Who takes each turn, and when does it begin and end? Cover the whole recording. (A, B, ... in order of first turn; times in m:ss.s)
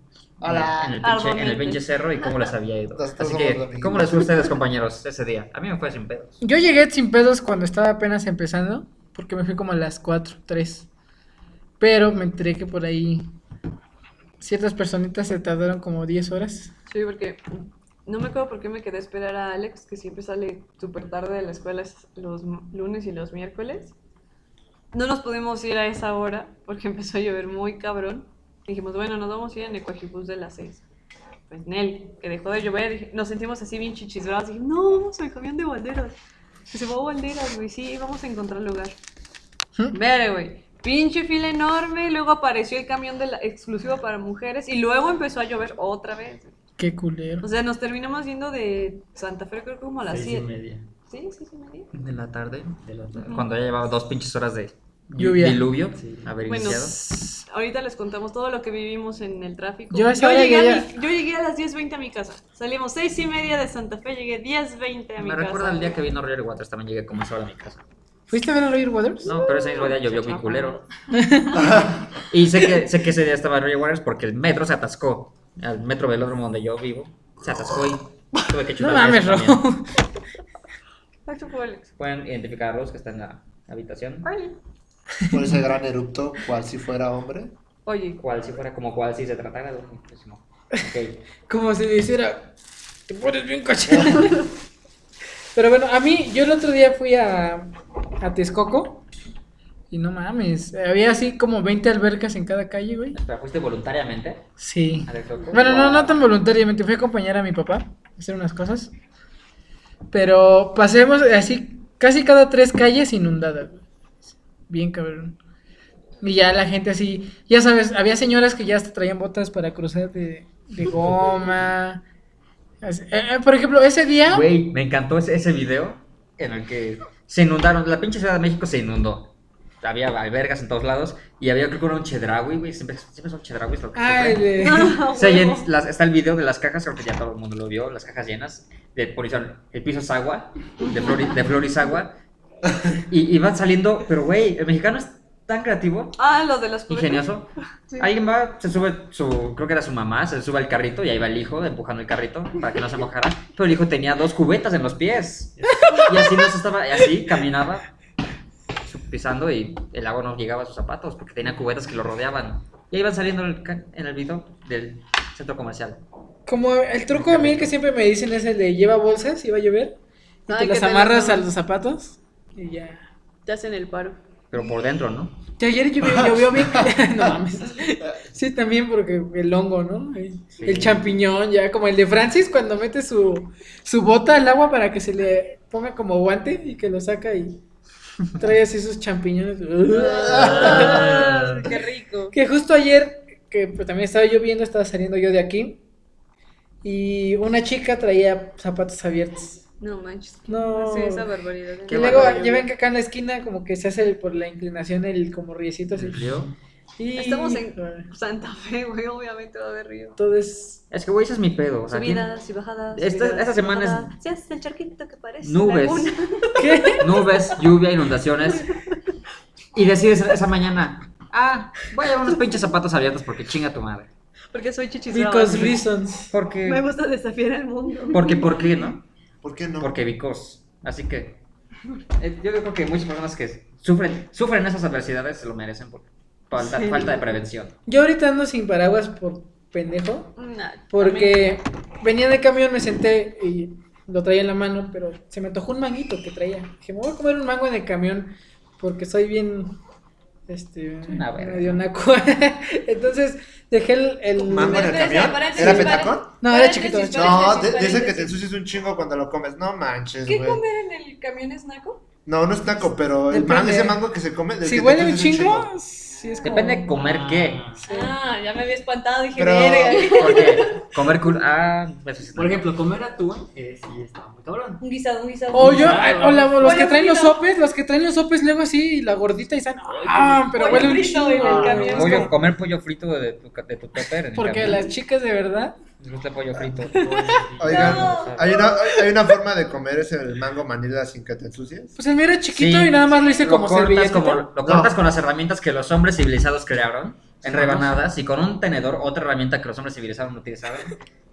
0:00.4-0:01.0 A
0:00.4-0:06.4 B
0:01.0-0:02.2 C
0:03.0-0:04.5 A
0:06.4-0:10.9 D
0:11.8-0:13.3 D
0:14.4-0:16.7 D
0:16.9-0:23.9 C
0:24.9-0:30.8 C
0:31.5-0:36.2 C
0:36.7-0:39.0 C
0:39.9-0:46.5 C
0:46.8-0:47.5 D
0:47.4-0:50.5 C
0:50.1-0:50.9 E
0:51.1-0:51.9 C
0:51.9-0:57.0 B
0:52.8-0:53.4 E
0:53.2-0:53.5 C
0:55.2-0:55.6 D
0:55.9-0:56.4 E
0:56.5-1:06.0 C
0:56.9-0:57.4 D
0:59.9-1:00.9 D
1:05.2-1:07.8 B
1:08.3-1:09.3 D
1:09.2-1:10.8 B
1:09.3-1:10.9 C
1:11.1-1:11.7 D
1:11.6-1:12.0 A
1:12.2-1:19.6 B
1:18.8-1:20.0 D
1:21.3-1:21.9 C
1:22.0-1:24.3 B
1:24.2-1:24.6 C
1:25.3-1:27.5 A
1:27.8-1:28.2 C
1:28.2-1:31.2 B
1:31.5-1:32.5 D
1:33.1-1:34.5 D
1:35.6-1:39.0 D
1:39.9-1:43.2 D
1:43.1-1:44.5 B
1:44.6-1:48.9 D
1:45.1-1:46.2 B
1:50.1-1:53.8 D
1:54.7-1:55.4 D
1:56.2-2:02.0 D
2:02.8-2:04.5 D
2:04.3-2:09.3 B
2:09.8-2:22.1 B
2:14.0-2:15.0 D
2:14.6-2:15.7 C
2:20.8-2:21.4 C
2:22.9-2:26.2 B
2:26.2-2:27.3 C
2:26.9-2:37.9 B
2:35.6-2:36.0 E
2:38.8-2:46.0 B
2:46.5-2:53.1 D
2:47.1-2:47.8 B
2:50.5-2:51.5 C
2:53.5-2:54.2 C
2:54.5-2:55.4 B
2:55.6-3:07.6 D
2:56.0-2:57.1 A
3:00.6-3:01.0 B
3:08.4-3:11.3 D
3:09.9-3:12.4 C
3:10.7-3:11.4 E
3:12.3-3:15.8 D
3:16.8-3:19.6 D
3:19.8-3:22.7 C
3:20.5-3:21.3 D
3:21.9-3:22.5 B
3:21.9-3:26.2 D
3:26.0-3:26.5 B
3:27.0-3:28.1 D
3:27.2-3:30.2 C
3:30.2-3:30.8 D
3:30.9-3:32.3 B
3:31.9-3:37.3 C
3:32.9-3:34.1 B
3:35.4-3:36.1 B
3:36.6-3:37.0 D
3:37.0-3:38.7 B
3:39.7-3:44.1 B
3:44.5-3:45.9 C
3:45.1-3:46.3 D
3:46.3-3:46.8 B
3:46.6-3:48.6 C
3:48.1-3:49.0 B
3:49.4-3:49.9 A
3:49.8-3:51.4 B
3:52.2-3:57.8 B
3:56.6-3:57.3 C
3:57.9-4:00.4 D
4:00.4-4:01.6 C
4:00.9-4:09.8 D
4:10.5-4:17.5 D
4:11.1-4:11.8 B
4:14.4-4:18.4 C
4:14.5-4:16.3 A
4:17.1-4:20.6 A
4:20.3-4:22.0 C
4:22.3-4:25.7 A
4:23.3-4:24.0 D
4:24.6-4:26.9 D
4:26.2-4:26.5 C
4:26.4-4:27.6 B
4:26.9-4:27.8 E
4:27.8-4:28.2 D
4:27.9-4:30.8 C
4:29.4-4:30.2 A
4:30.2-4:32.7 B
4:32.4-4:34.8 E
4:34.8-4:37.4 C
4:35.5-4:42.3 D
4:35.5-4:36.9 E
4:39.9-4:42.3 E
4:40.5-4:42.3 C
4:41.9-4:44.9 B
4:44.4-4:45.8 D
4:46.0-4:47.1 B
4:46.9-4:48.2 E
4:47.6-4:52.0 A
4:47.6-4:49.1 C
4:47.7-4:48.6 B
4:52.0-4:54.5 D
4:52.5-5:01.0 B
4:53.1-4:53.5 C
4:54.6-4:55.0 A
4:57.5-4:57.9 A